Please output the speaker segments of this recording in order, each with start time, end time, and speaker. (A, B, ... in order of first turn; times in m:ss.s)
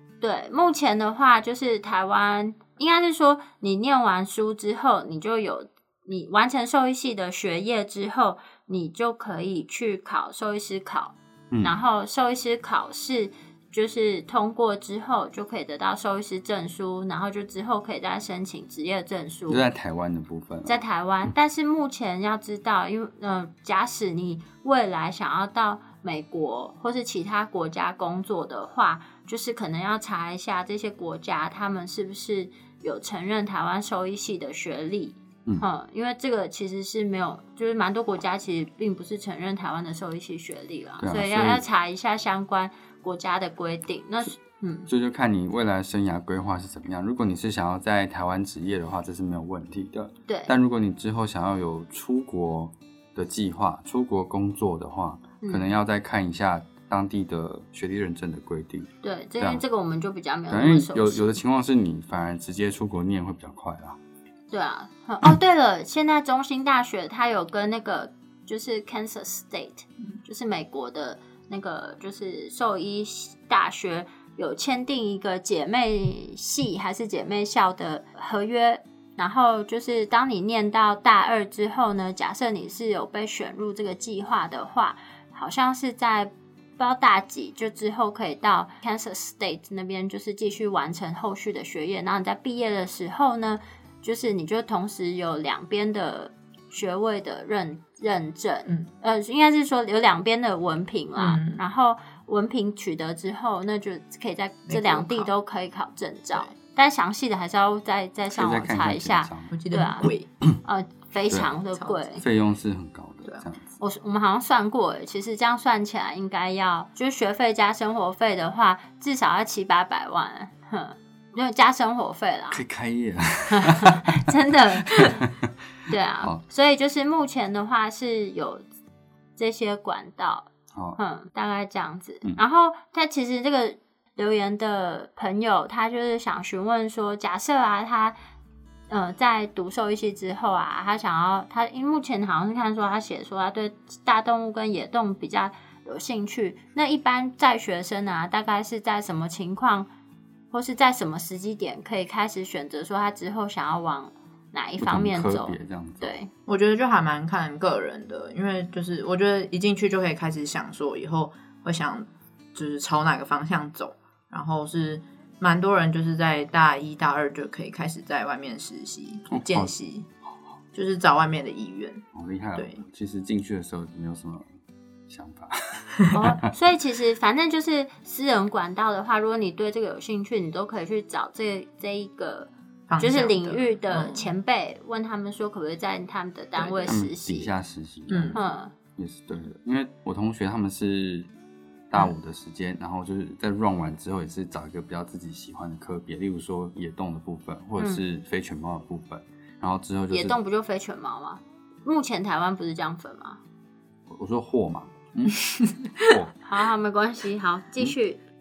0:00.2-0:19.6 A
0:11.5-0:11.8 B
0:19.5-0:20.8 B
0:20.7-0:44.9 A
0:41.0-0:41.6 B
0:44.9-0:59.6 B
0:50.3-0:50.5 A
0:55.4-0:55.7 A
0:59.0-1:01.3 A
1:00.5-1:04.0 B
1:04.5-1:50.1 A
1:41.2-1:41.6 C
1:44.7-1:45.3 C
1:48.3-1:49.5 B
1:49.5-1:50.3 C
1:50.6-1:52.2 A
1:51.3-1:51.6 B
1:52.2-1:53.8 B
1:53.8-2:02.6 A
2:02.5-2:04.0 B
2:03.5-2:05.3 A
2:05.0-2:05.4 B
2:05.9-2:08.7 A
2:09.4-2:18.2 A
2:18.9-2:29.9 A
2:30.5-2:36.3 A
2:34.8-2:36.2 B
2:36.5-2:50.1 C
2:49.3-2:49.7 B
2:50.7-2:52.8 C
2:52.2-2:54.5 B
2:55.1-2:56.0 B
2:56.1-3:07.5 A
3:02.9-3:04.3 C
3:06.6-3:07.0 C
3:06.9-3:08.4 B
3:08.1-3:08.4 C
3:08.3-3:08.7 A
3:09.0-3:11.3 B
3:11.9-3:20.4 B
3:20.1-3:23.4 A
3:24.1-3:25.4 B
3:26.0-3:26.3 B
3:26.4-3:28.2 A